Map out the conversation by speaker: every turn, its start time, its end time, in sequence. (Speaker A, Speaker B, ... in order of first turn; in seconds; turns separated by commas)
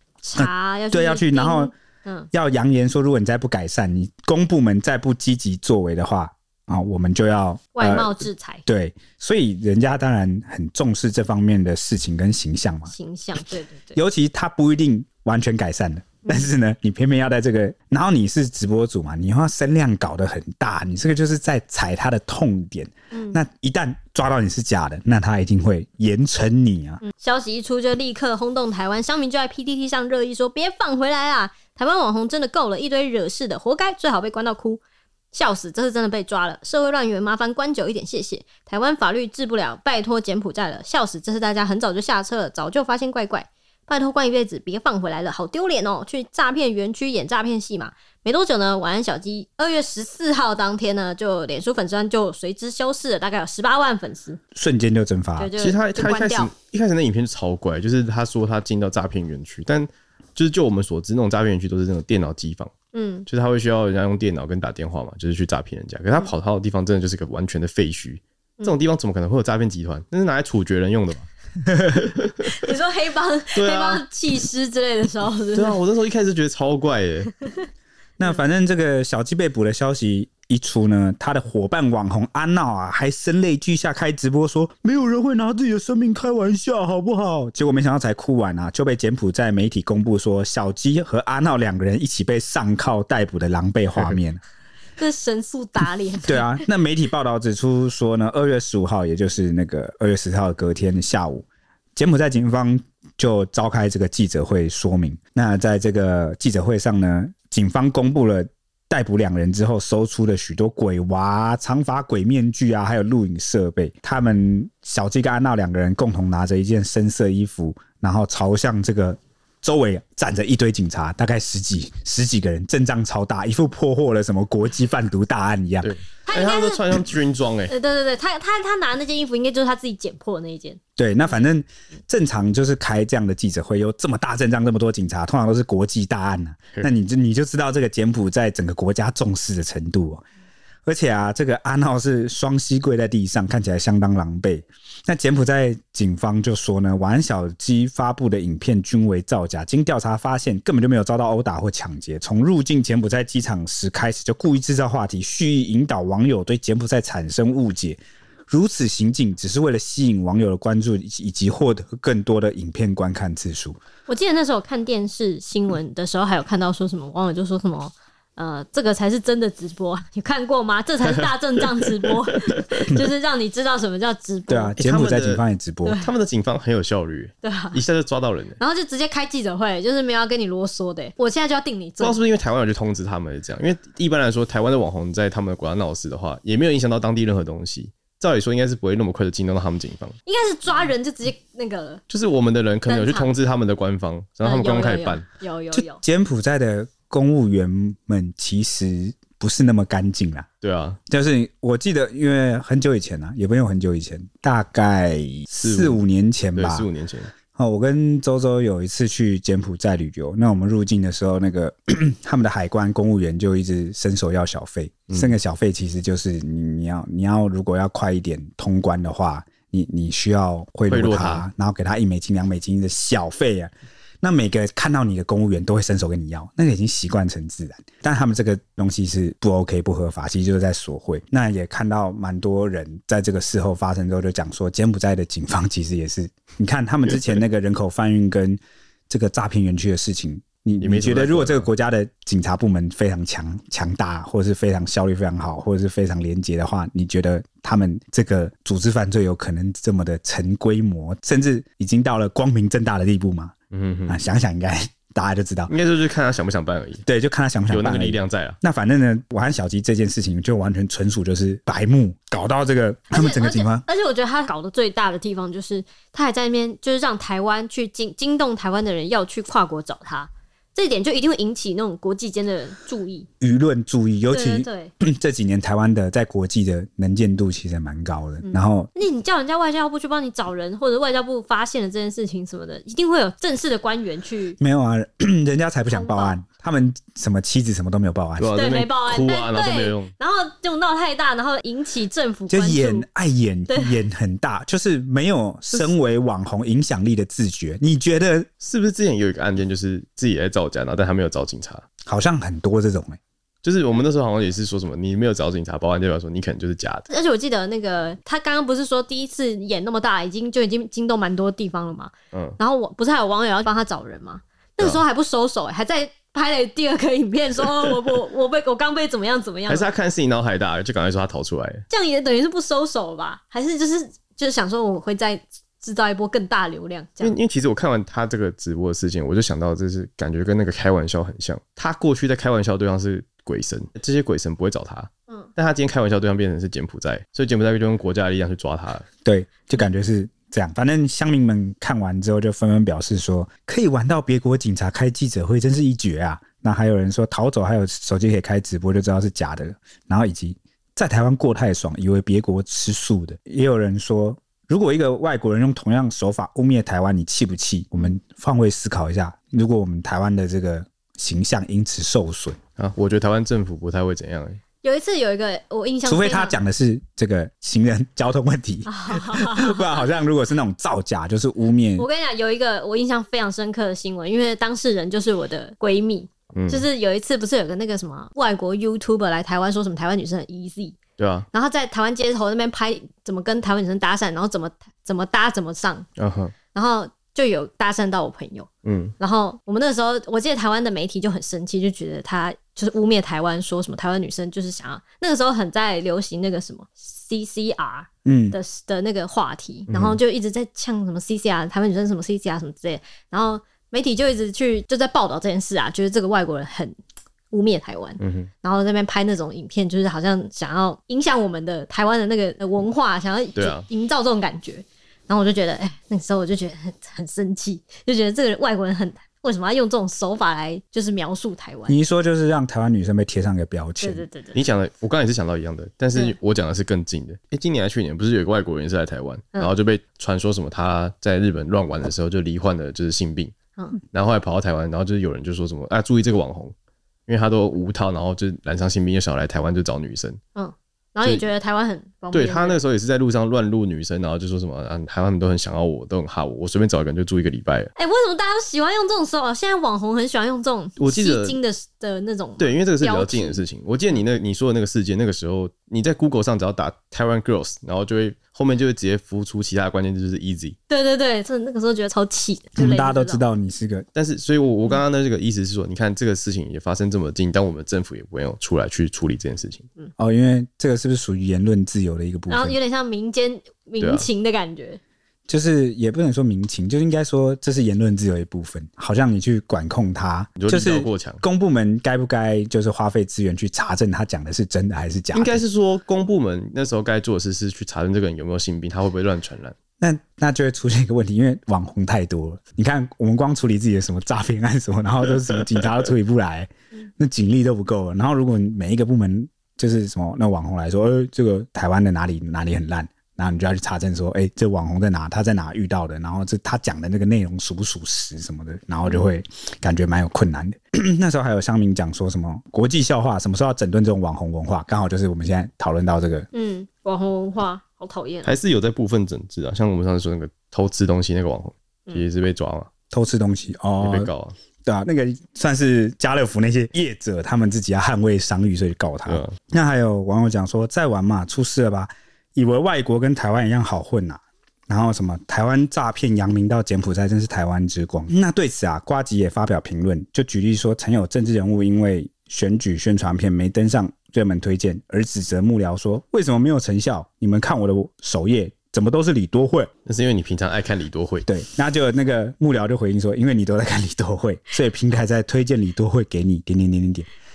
Speaker A: 0.2-2.3, Speaker B: 0.3-1.7, Speaker B: 2.3-12.9, Speaker A: 7.7-8.6, Speaker A: 12.9-14.0, Speaker B: 13.9-27.0, Speaker A: 23.1-23.4, Speaker A: 27.0-34.8, Speaker A: 35.3-54.4, Speaker B: 54.5-55.5, Speaker A: 55.4-56.5, Speaker C: 55.6-62.7, Speaker A: 62.9-63.2, Speaker C: 63.3-71.3, Speaker C: 72.0-72.4, Speaker A: 72.4-75.8, Speaker C: 73.5-74.0, Speaker C: 75.5-77.3, Speaker B: 78.2-94.4, Speaker A: 95.0-96.6, Speaker B: 96.2-125.9, Speaker C: 125.8-127.7, Speaker A: 126.2-126.8, Speaker A: 127.7-130.8, Speaker B: 131.0-140.2, Speaker B: 140.8-163.8, Speaker A: 164.1-174.7, Speaker B: 174.5-176.0, Speaker C: 174.8-175.4, Speaker C: 176.0-178.6, Speaker A: 177.4-177.8, Speaker A: 178.6-182.2, Speaker C: 182.0-190.1, Speaker A: 190.2-192.0, Speaker C: 192.1-195.2, Speaker A: 192.8-193.3, Speaker A: 194.4-196.0, Speaker B: 195.7-200.5, Speaker C: 200.6-201.0, Speaker B: 201.1-206.9, Speaker C: 205.6-206.0, Speaker C: 206.5-207.3, Speaker B: 207.6-223.7, Speaker C: 215.1-215.3, Speaker C: 220.9-221.4, Speaker B: 224.2-253.5, Speaker C: 240.8-241.7, Speaker C: 253.7-254.2, Speaker B: 254.1-255.7, Speaker C: 255.7-257.0, Speaker B: 257.1-263.8, Speaker C: 257.7-258.6, Speaker A: 263.1-273.3, Speaker B: 273.4-278.9, Speaker A: 274.3-274.9, Speaker A: 278.4-284.6, Speaker B: 284.6-288.5, Speaker A: 285.9-286.4, Speaker C: 288.4-290.1, Speaker A: 288.5-293.0, Speaker B: 292.5-298.5, Speaker A: 293.7-293.9, Speaker C: 298.6-301.8, Speaker B: 302.1-303.2, Speaker C: 303.6-307.1, Speaker A: 307.1-319.9, Speaker C: 312.3-312.6, Speaker C: 319.7-321.8, Speaker A: 321.9-327.4, Speaker C: 327.2-339.1, Speaker B: 339.2-362.6, Speaker C: 362.8-364.6, Speaker A: 364.8-366.6, Speaker B: 366.1-372.1, Speaker A: 368.9-370.1, Speaker A: 372.0-381.0, Speaker C: 376.5-376.9, Speaker C: 381.2-381.5, Speaker A: 381.5-386.1, Speaker C: 386.2-386.5, Speaker A: 386.7-406.9, Speaker C: 388.8-389.1, Speaker B: 398.2-398.6, Speaker C: 399.9-400.2, Speaker A: 407.5-422.0, Speaker C: 408.2-408.5, Speaker C: 413.6-413.9, Speaker B: 421.9-424.2, Speaker A: 424.0-424.6, Speaker C: 424.5-433.5, Speaker C: 434.1-436.7, Speaker C: 437.3-440.4, Speaker A: 440.5-442.8, Speaker C: 442.3-447.9, Speaker A: 447.9-453.6, Speaker C: 451.0-451.6, Speaker C: 452.6-460.8, Speaker A: 460.9-463.4, Speaker B: 462.8-464.0, Speaker C: 464.1-469.9, Speaker B: 470.2-472.8, Speaker A: 472.5-475.0, Speaker C: 474.0-474.3, Speaker B: 475.5-485.6, Speaker C: 480.6-481.4, Speaker C: 485.3-489.7, Speaker B: 490.0-516.5, Speaker A: 516.5-518.5, Speaker C: 518.4-522.9, Speaker B: 523.1-524.3, Speaker C: 524.0-524.5, Speaker B: 524.8-549.9, Speaker C: 529.3-529.6, Speaker C: 550.0-551.5, Speaker B: 551.5-557.3